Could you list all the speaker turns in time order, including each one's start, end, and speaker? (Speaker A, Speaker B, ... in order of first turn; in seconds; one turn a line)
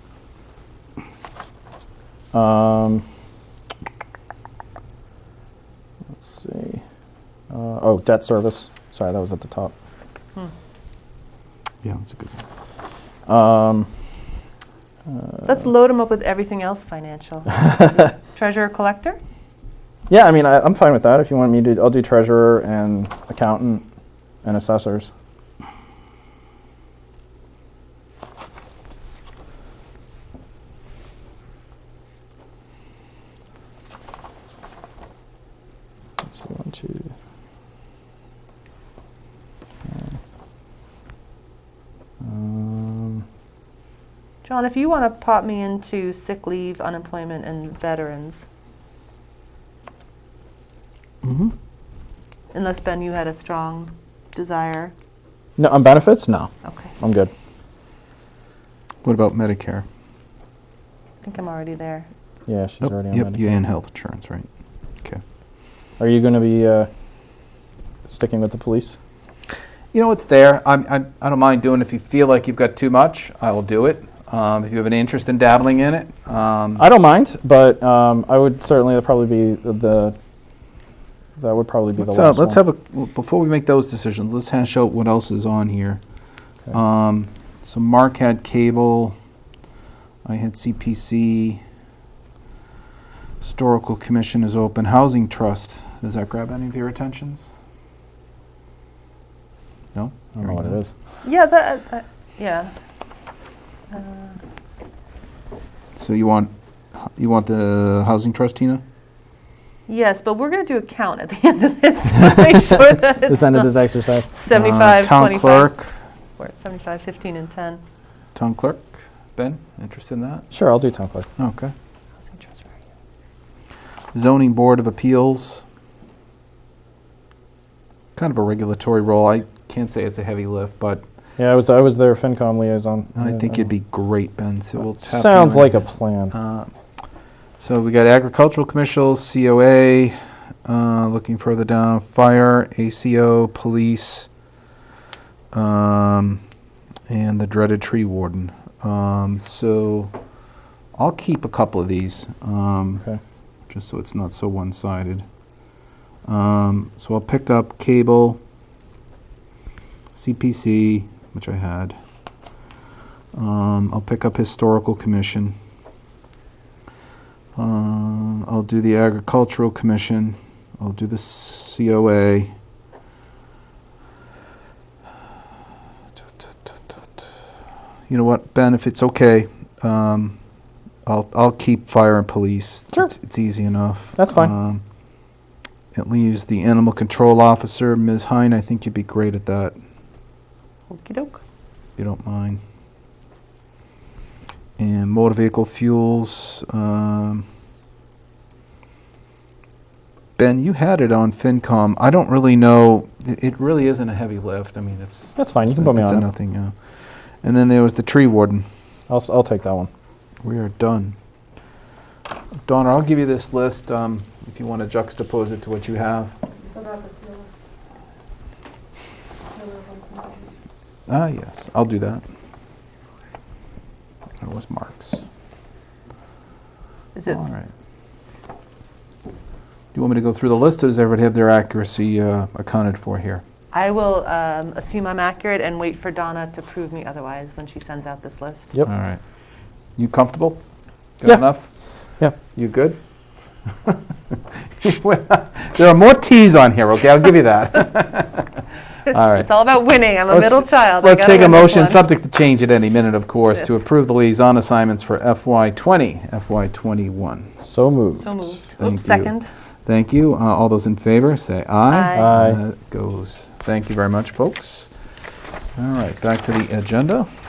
Speaker A: 2.3-3.0
Speaker A: 6.1-6.8
Speaker A: 7.5-9.7
Speaker B: 11.8-12.4
Speaker A: 13.3-13.9
Speaker A: 15.1-15.6
Speaker C: 15.5-19.2
Speaker A: 20.1-23.8
Speaker A: 24.4-25.1
Speaker A: 36.2-37.1
Speaker A: 42.2-43.2
Speaker C: 44.4-48.5
Speaker B: 51.2-51.5
Speaker C: 52.5-54.9
Speaker A: 55.6-57.3
Speaker B: 59.0-59.9
Speaker C: 61.2-62.1
Speaker A: 62.5-63.6
Speaker B: 62.8-64.5
Speaker A: 66.0-66.9
Speaker A: 68.1-69.0
Speaker B: 69.9-76.8
Speaker A: 76.8-80.2
Speaker A: 81.4-82.6
Speaker B: 82.0-86.0
Speaker B: 86.7-89.2
Speaker B: 90.2-91.6
Speaker B: 93.4-97.5
Speaker B: 99.9-100.8
Speaker A: 100.4-100.9
Speaker C: 101.2-102.7
Speaker C: 103.9-104.4
Speaker B: 106.0-106.5
Speaker B: 107.0-108.8
Speaker C: 109.9-113.7
Speaker A: 112.2-114.3
Speaker C: 114.3-115.7
Speaker B: 114.5-115.9
Speaker C: 116.4-117.8
Speaker B: 118.3-120.5
Speaker A: 120.5-121.3
Speaker B: 121.4-121.7
Speaker C: 122.3-122.7
Speaker B: 124.1-125.7
Speaker B: 128.2-131.0
Speaker A: 131.4-133.6
Speaker B: 133.2-136.7
Speaker A: 134.8-136.3
Speaker B: 137.6-144.3
Speaker B: 145.5-146.4
Speaker B: 147.1-150.1
Speaker B: 151.0-153.1
Speaker B: 153.7-155.2
Speaker B: 156.3-158.4
Speaker B: 160.2-162.0
Speaker B: 163.3-165.6
Speaker B: 167.6-172.5
Speaker B: 178.1-180.4
Speaker B: 181.1-184.8
Speaker A: 184.2-184.5
Speaker B: 185.9-189.8
Speaker C: 190.9-191.4
Speaker B: 192.0-192.6
Speaker B: 194.8-197.5
Speaker B: 200.4-206.7
Speaker A: 205.4-206.3
Speaker B: 207.4-208.7
Speaker A: 209.1-209.9
Speaker B: 210.4-211.2
Speaker B: 212.7-216.3
Speaker C: 216.7-217.5
Speaker C: 219.5-220.4
Speaker B: 221.1-222.2
Speaker B: 224.4-225.2
Speaker C: 227.2-227.4
Speaker B: 227.3-227.7
Speaker B: 229.9-233.4
Speaker C: 233.7-238.7
Speaker B: 238.8-239.2
Speaker B: 240.0-240.6
Speaker B: 241.2-241.7
Speaker B: 242.5-243.0
Speaker B: 243.8-249.5
Speaker C: 249.1-252.1
Speaker B: 250.3-257.5
Speaker A: 257.6-258.3
Speaker C: 258.2-259.5
Speaker B: 258.8-259.3
Speaker B: 259.9-264.9
Speaker C: 261.9-262.3
Speaker A: 262.1-262.6
Speaker B: 265.8-267.3